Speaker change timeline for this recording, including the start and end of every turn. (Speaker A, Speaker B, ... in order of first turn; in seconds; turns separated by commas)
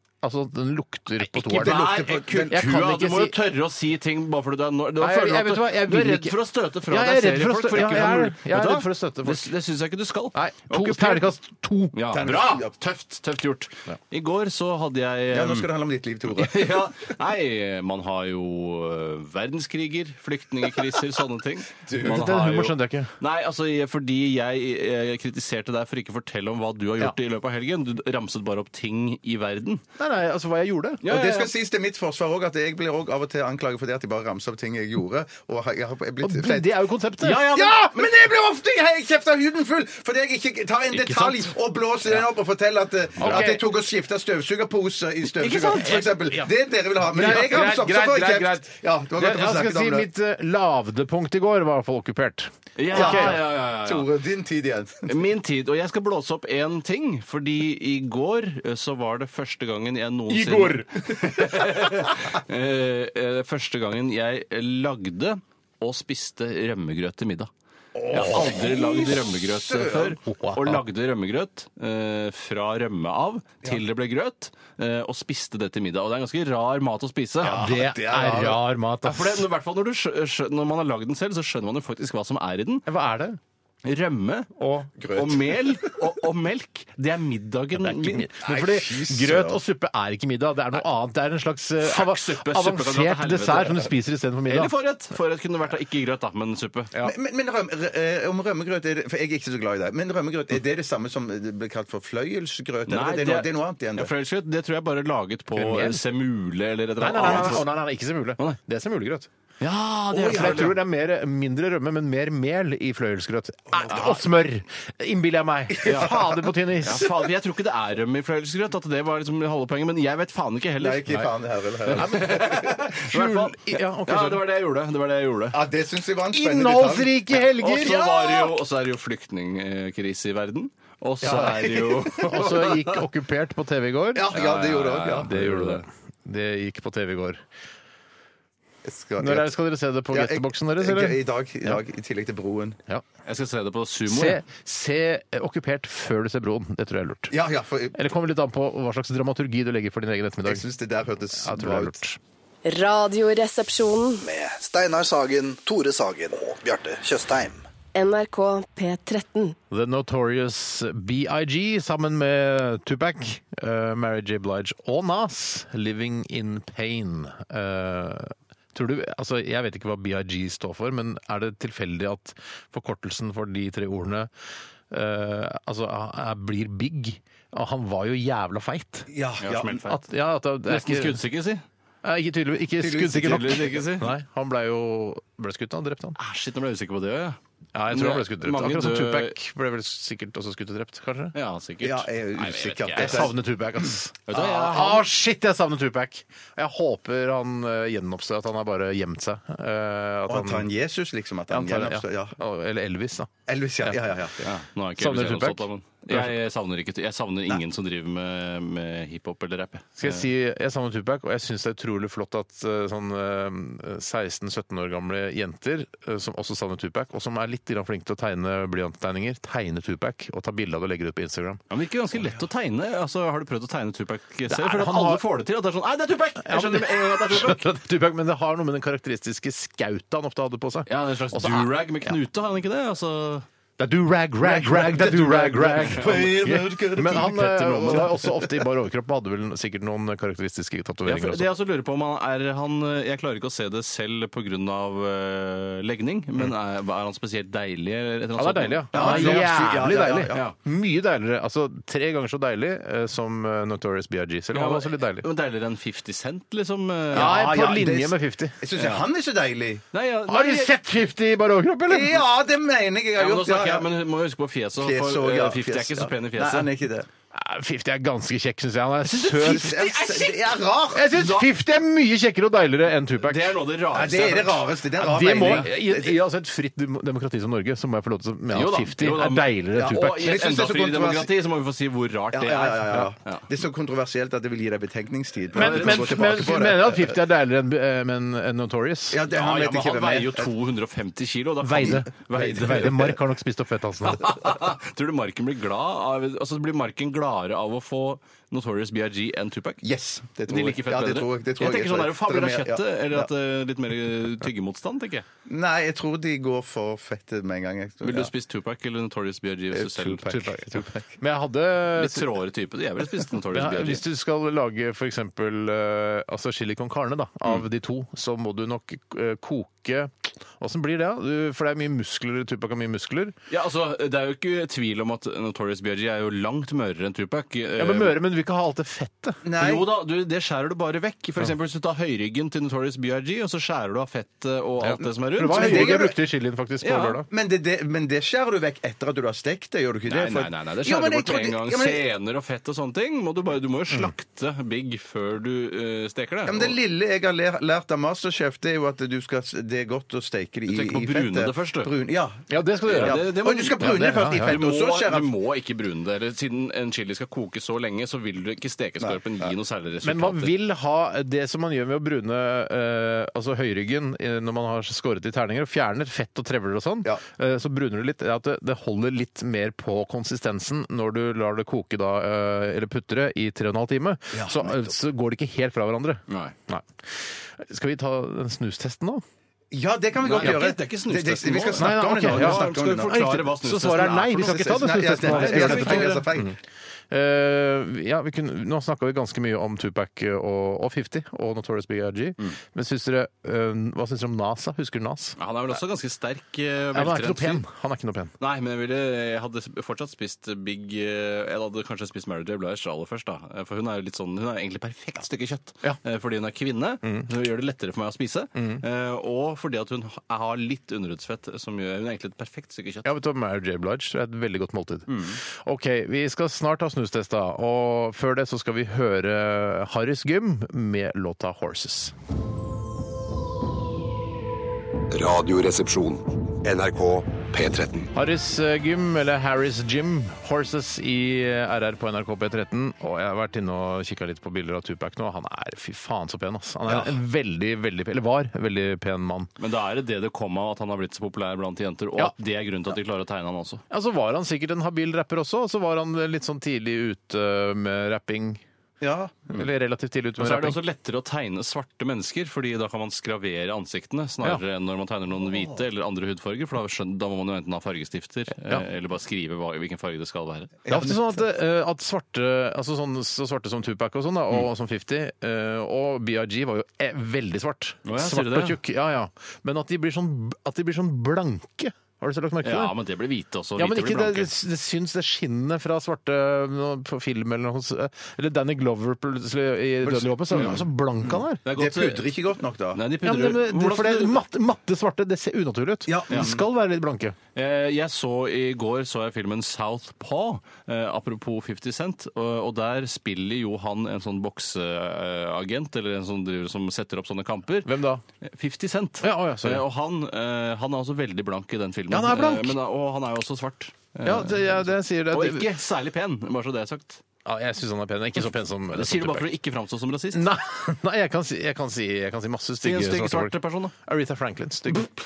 Speaker A: 0.2-1.8, Speaker B: 1.4-11.3, Speaker C: 1.5-2.7, Speaker A: 2.5-3.4, Speaker A: 5.0-9.5, Speaker A: 10.3-12.0, Speaker B: 11.9-15.7, Speaker C: 12.1-12.7, Speaker C: 15.3-16.9, Speaker B: 16.3-29.8, Speaker C: 21.9-22.2, Speaker A: 22.0-23.1, Speaker A: 30.0-31.1, Speaker B: 31.0-31.5, Speaker C: 31.1-50.1, Speaker A: 36.2-37.5, Speaker B: 37.2-38.0, Speaker B: 40.9-41.5, Speaker B: 43.2-43.5, Speaker A: 43.2-43.7, Speaker B: 45.4-46.1, Speaker A: 45.9-53.4, Speaker B: 52.8-54.1, Speaker C: 52.9-55.2, Speaker B: 55.1-67.5, Speaker A: 60.3-61.6, Speaker C: 68.0-70.1, Speaker B: 68.1-77.6, Speaker A: 70.2-70.8, Speaker A: 77.4-79.5, Speaker C: 77.5-78.6, Speaker B: 79.0-82.9, Speaker A: 82.9-83.4, Speaker B: 83.8-84.5, Speaker A: 84.6-84.9, Speaker C: 85.0-86.0, Speaker B: 85.1-88.3, Speaker A: 87.7-94.7, Speaker C: 88.4-89.6, Speaker B: 91.8-93.9, Speaker B: 94.5-96.9, Speaker C: 97.0-104.1, Speaker B: 102.9-107.7, Speaker A: 105.6-106.0, Speaker A: 107.0-109.3, Speaker C: 107.2-107.6, Speaker B: 109.6-110.8, Speaker C: 110.1-110.8, Speaker A: 110.2-117.2, Speaker C: 113.7-114.2, Speaker C: 115.8-116.4, Speaker B: 115.8-116.2, Speaker B: 116.8-121.1, Speaker C: 120.8-122.8, Speaker B: 121.9-125.6, Speaker A: 121.9-124.4, Speaker C: 125.5-128.5, Speaker A: 126.3-128.0, Speaker B: 127.6-133.0, Speaker C: 131.2-132.4, Speaker A: 132.2-134.3, Speaker C: 134.2-135.3, Speaker B: 134.3-135.8, Speaker A: 135.2-137.4, Speaker C: 138.8-139.5, Speaker A: 139.2-141.8, Speaker C: 140.1-142.8, Speaker B: 143.2-144.4, Speaker A: 144.1-147.3, Speaker C: 147.3-148.0, Speaker A: 147.9-150.7, Speaker C: 150.4-152.0, Speaker A: 151.3-152.2, Speaker D: 152.7-154.2, Speaker E: 154.2-157.6, Speaker D: 157.9-159.6, Speaker A: 159.7-174.3, Speaker A: 174.9-179.1, Speaker C: 179.1-179.9, Speaker B: 179.4-180.0, Speaker A: 179.9-181.2, Speaker B: 180.7-181.6, Speaker A: 182.0-186.2, Speaker C: 182.8-183.8, Speaker B: 183.1-184.1, Speaker B: 186.2-187.4, Speaker A: 187.8-191.3, Speaker B: 187.9-189.4, Speaker B: 191.3-193.3, Speaker C: 191.8-193.3, Speaker A: 192.9-200.7, Speaker B: 194.3-195.0, Speaker C: 194.3-194.8, Speaker C: 200.3-202.4, Speaker A: 201.5-204.2, Speaker C: 203.5-204.4, Speaker B: 204.4-210.2, Speaker A: 205.0-206.3, Speaker A: 210.0-221.6, Speaker B: 221.7-227.7, Speaker A: 224.5-225.2, Speaker A: 226.4-232.2, Speaker B: 230.9-233.5, Speaker A: 233.8-241.5, Speaker C: 234.4-238.7, Speaker B: 235.6-236.3, Speaker B: 241.1-249.6, Speaker A: 248.4-255.3, Speaker C: 248.9-250.4, Speaker B: 254.5-257.4, Speaker C: 257.1-259.8, Speaker A: 257.1-258.6, Speaker B: 258.8-259.1, Speaker B: 259.9-260.7, Speaker A: 260.3-262.2, Speaker C: 261.9-263.9, Speaker B: 263.2-266.7, Speaker C: 264.8-267.1, Speaker A: 267.3-270.4, Speaker B: 269.1-269.7, Speaker C: 269.2-271.3, Speaker A: 270.9-273.6, Speaker B: 271.2-271.5, Speaker B: 273.2-274.7, Speaker C: 273.9-276.2, Speaker A: 275.0-280.3, Speaker B: 275.4-275.7, Speaker B: 278.5-283.5, Speaker C: 279.8-281.3, Speaker C: 282.3-287.1, Speaker B: 285.5-286.4, Speaker A: 285.5-289.2, Speaker C: 289.1-290.5, Speaker B: 289.3-293.2, Speaker A: 291.6-294.5, Speaker B: 294.0-299.8, Speaker C: 299.8-303.3, Speaker B: 300.5-305.3, Speaker C: 305.5-308.3, Speaker B: 308.0-310.3, Speaker C: 309.7-311.2, Speaker A: 310.2-312.3, Speaker B: 311.9-314.0, Speaker A: 313.5-323.4, Speaker B: 323.5-328.2, Speaker A: 327.8-329.4, Speaker C: 329.4-329.9, Speaker B: 329.6-336.1, Speaker A: 334.8-337.3, Speaker C: 335.5-336.2, Speaker B: 336.8-337.2, Speaker C: 337.3-342.0, Speaker B: 340.1-346.8, Speaker C: 346.5-355.3, Speaker B: 350.7-351.9, Speaker A: 352.5-354.6, Speaker B: 352.9-360.6, Speaker A: 360.0-379.2, Speaker C: 374.3-374.9, Speaker B: 376.3-376.6, Speaker C: 379.7-383.4, Speaker B: 380.2-386.2, Speaker A: 380.4-380.6, Speaker A: 381.8-386.6, Speaker C: 384.1-386.6, Speaker A: 387.1-395.4, Speaker B: 395.4-397.6, Speaker A: 396.9-398.3, Speaker B: 398.4-413.1, Speaker A: 408.6-408.8, Speaker A: 413.1-422.1, Speaker B: 415.1-415.4, Speaker F: 425.1-428.1, Speaker A: 428.1-439.5, Speaker C: 436.9-437.1, Speaker B: 439.6-443.8, Speaker A: 443.9-448.6, Speaker C: 449.0-449.6, Speaker A: 449.5-450.8, Speaker B: 450.4-460.8, Speaker C: 460.9-461.4, Speaker A: 460.9-472.9, Speaker B: 468.1-468.8, Speaker B: 472.6-474.5, Speaker A: 473.8-481.6, Speaker C: 480.0-480.9, Speaker B: 481.6-482.4, Speaker C: 481.6-483.0, Speaker B: 482.9-484.4, Speaker A: 483.2-487.4, Speaker C: 486.1-486.6, Speaker B: 487.6-507.2, Speaker A: 497.9-498.2, Speaker A: 499.2-499.8, Speaker A: 502.1-502.8, Speaker A: 504.2-505.7, Speaker A: 507.4-509.5, Speaker B: 508.4-510.5, Speaker A: 510.3-515.1, Speaker B: 512.8-513.9